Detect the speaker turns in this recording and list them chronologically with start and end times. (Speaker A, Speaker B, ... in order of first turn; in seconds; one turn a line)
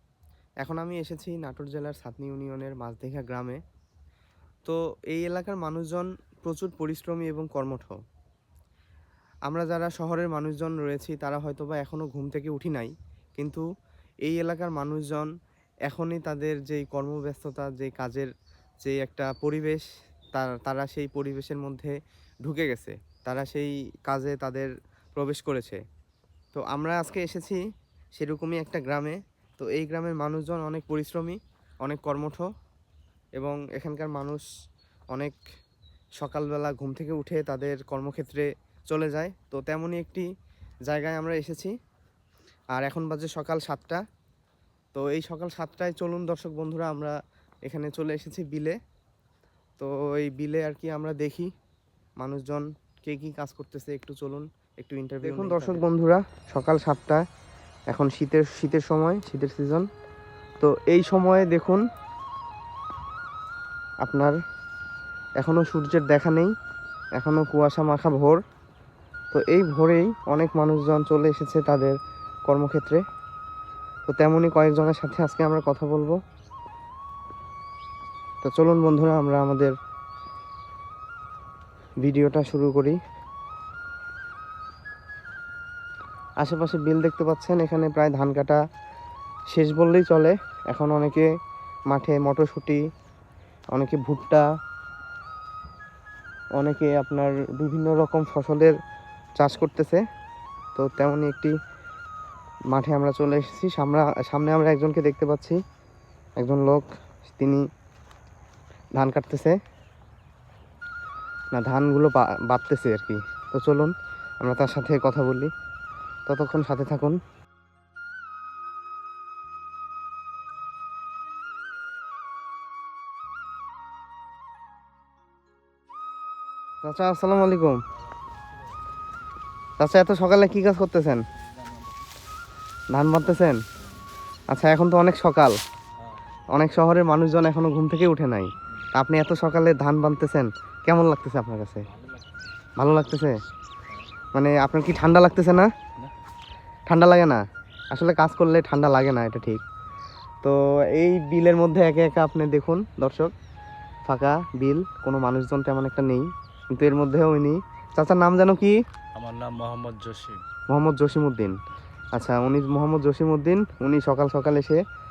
Speaker A: 0.6-3.6
Speaker A: 4.6-8.0
Speaker A: 9.4-13.7
Speaker A: 14.2-15.3
Speaker A: 15.8-18.3
Speaker A: 18.8-25.8
Speaker A: 26.5-27.6
Speaker A: 28.2-32.5
Speaker A: 33.4-34.4
Speaker A: 36.2-40.2
Speaker A: 40.9-41.7
Speaker A: 42.7-44.0
Speaker A: 44.9-47.1
Speaker A: 47.7-48.8
Speaker A: 49.8-51.5
Speaker A: 52.2-57.2
Speaker B: 55.2-55.8
Speaker A: 57.9-59.9
Speaker A: 60.6-61.8
Speaker A: 64.0-64.4
Speaker A: 65.4-66.5
Speaker A: 67.2-68.4
Speaker A: 69.3-72.0
Speaker A: 72.5-73.0
Speaker A: 74.1-76.2
Speaker A: 78.4-79.7
Speaker A: 82.0-83.0
Speaker A: 86.4-88.6
Speaker A: 89.5-91.3
Speaker A: 91.9-92.8
Speaker A: 93.7-94.5
Speaker A: 96.6-98.7
Speaker A: 99.4-100.0
Speaker A: 100.8-101.5
Speaker A: 102.7-105.6
Speaker A: 106.4-107.6
Speaker A: 109.0-109.5
Speaker A: 111.5-115.5
Speaker A: 116.3-117.2
Speaker A: 126.8-127.8
Speaker A: 129.8-131.2
Speaker B: 131.6-132.0
Speaker A: 132.9-133.6
Speaker A: 134.5-135.6
Speaker A: 136.5-141.9
Speaker B: 141.9-142.2
Speaker A: 142.8-143.4
Speaker A: 144.3-145.7
Speaker A: 146.9-149.6
Speaker A: 150.4-153.3
Speaker A: 154.1-158.8
Speaker B: 159.1-160.4
Speaker A: 160.7-161.6
Speaker A: 162.1-164.8